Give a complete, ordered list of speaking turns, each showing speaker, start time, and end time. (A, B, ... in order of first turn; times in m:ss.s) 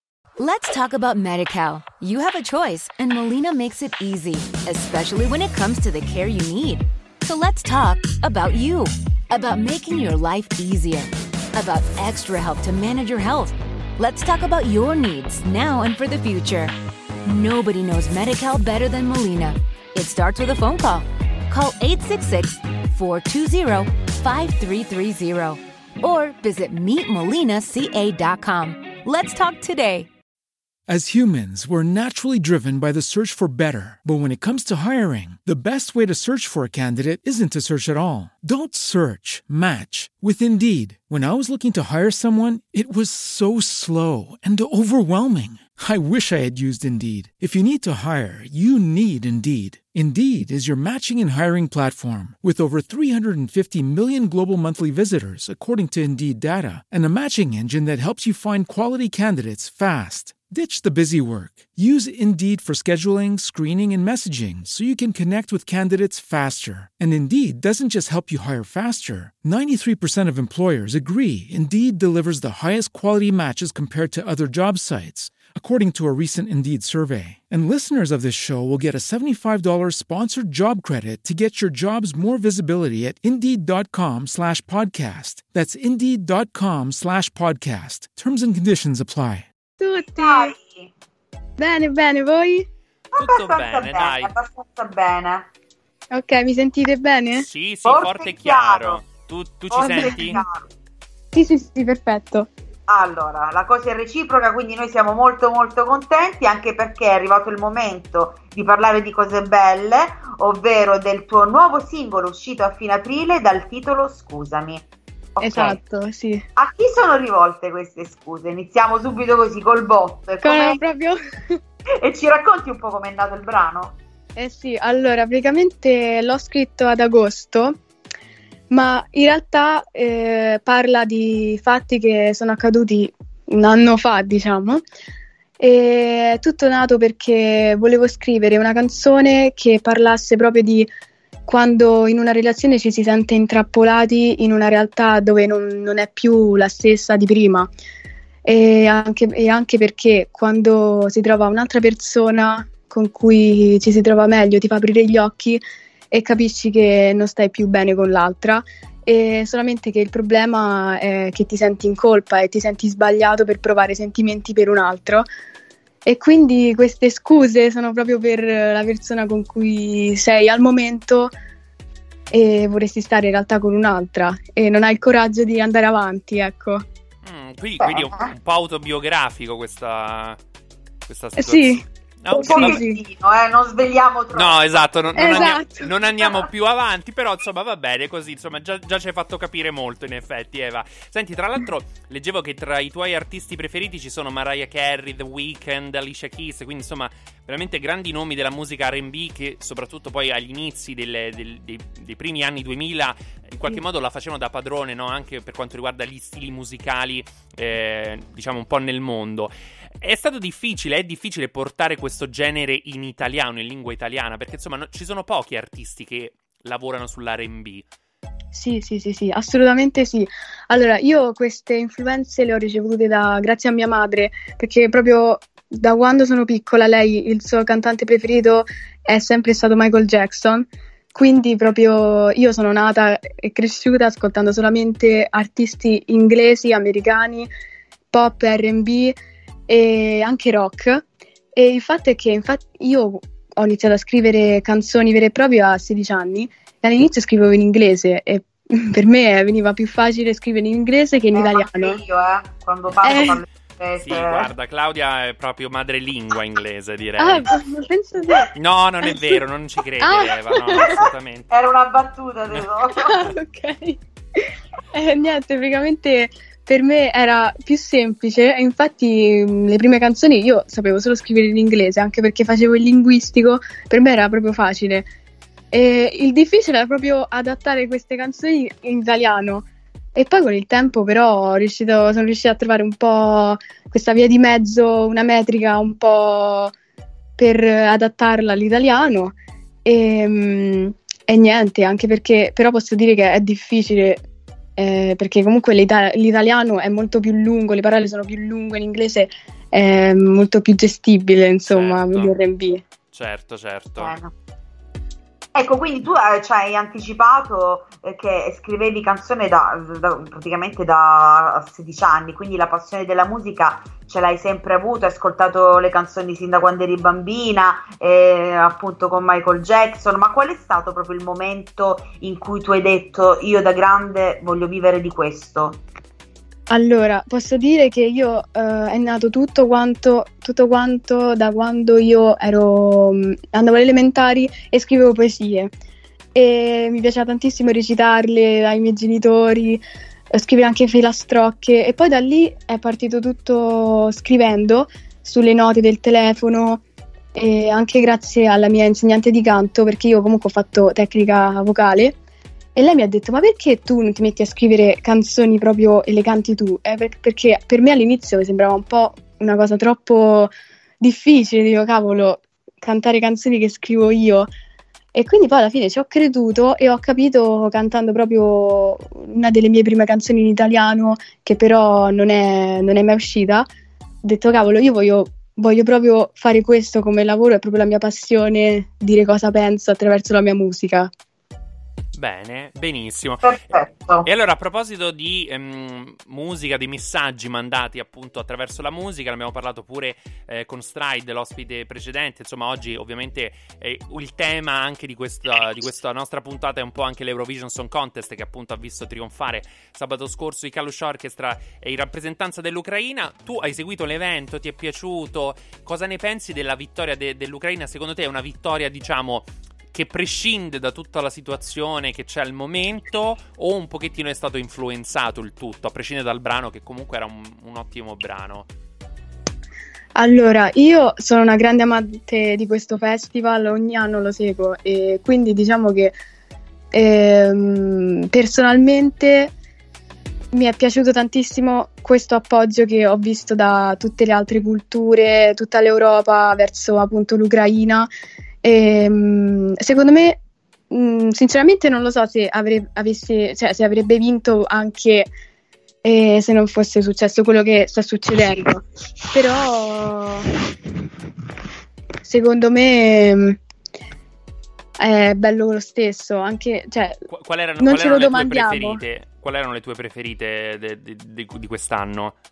0:00.4-0:30.1 A
0:30.9-1:29.5 B
1:29.8-1:30.5 C
1:30.1-1:30.9 D
1:31.6-1:32.7 C
1:33.2-1:34.4 E
1:33.2-1:35.5 D
1:36.1-1:37.4 C
1:37.4-1:40.4 E
1:37.8-1:39.1 D
1:39.7-1:40.7 D
1:39.8-1:40.2 C
1:41.3-1:42.5 C
1:42.9-1:54.8 D
1:55.4-1:55.8 D
1:55.4-1:56.4 C
1:56.6-2:00.8 D
2:00.4-2:01.2 C
2:02.0-2:04.0 D
2:04.4-2:07.8 C
2:08.7-2:14.8 C
2:15.6-2:20.9 C
2:21.5-2:27.7 C
2:28.4-2:45.3 C
2:46.1-2:51.3 C
2:52.3-2:56.8 C
2:57.2-3:00.4 E
2:57.8-2:58.3 D
3:01.1-3:02.8 E
3:01.4-3:03.0 C
3:02.4-3:05.6 D
3:04.3-3:37.9 E
3:05.2-3:05.8 C
3:38.5-3:57.5 C
3:58.1-3:59.2 C
3:59.7-4:12.0 C
4:11.3-4:14.5 D
4:13.0-4:13.3 E
4:13.0-4:13.4 C
4:14.0-4:17.6 E
4:17.2-4:18.5 C
4:18.5-4:21.5 E
4:20.0-4:20.9 C
4:21.5-4:23.1 D
4:23.0-4:24.0 C
4:24.9-4:35.1 C
4:35.7-4:46.7 C
4:47.4-4:49.3 C
4:49.8-4:54.2 C
4:54.8-5:02.8 C
5:01.7-5:02.4 E
5:03.1-5:04.2 E
5:04.0-5:04.3 D
5:05.6-5:25.8 D
5:26.7-5:35.7 C
5:36.4-5:39.8 C
5:40.3-5:46.8 C
5:47.4-5:52.2 C
5:52.8-6:04.5 C
6:05.1-6:13.7 C
6:14.2-6:21.1 C
6:22.2-6:23.7 E
6:23.4-6:24.3 D
6:24.2-6:58.7 E
7:00.2-7:06.1 C
7:06.9-7:09.5 C
7:10.5-7:18.1 C
7:18.6-7:20.4 C
7:20.9-7:25.3 C
7:26.0-7:30.5 C
7:32.2-7:33.6 C
7:35.0-7:37.2 C
7:37.3-7:42.4 E
7:37.8-7:39.0 C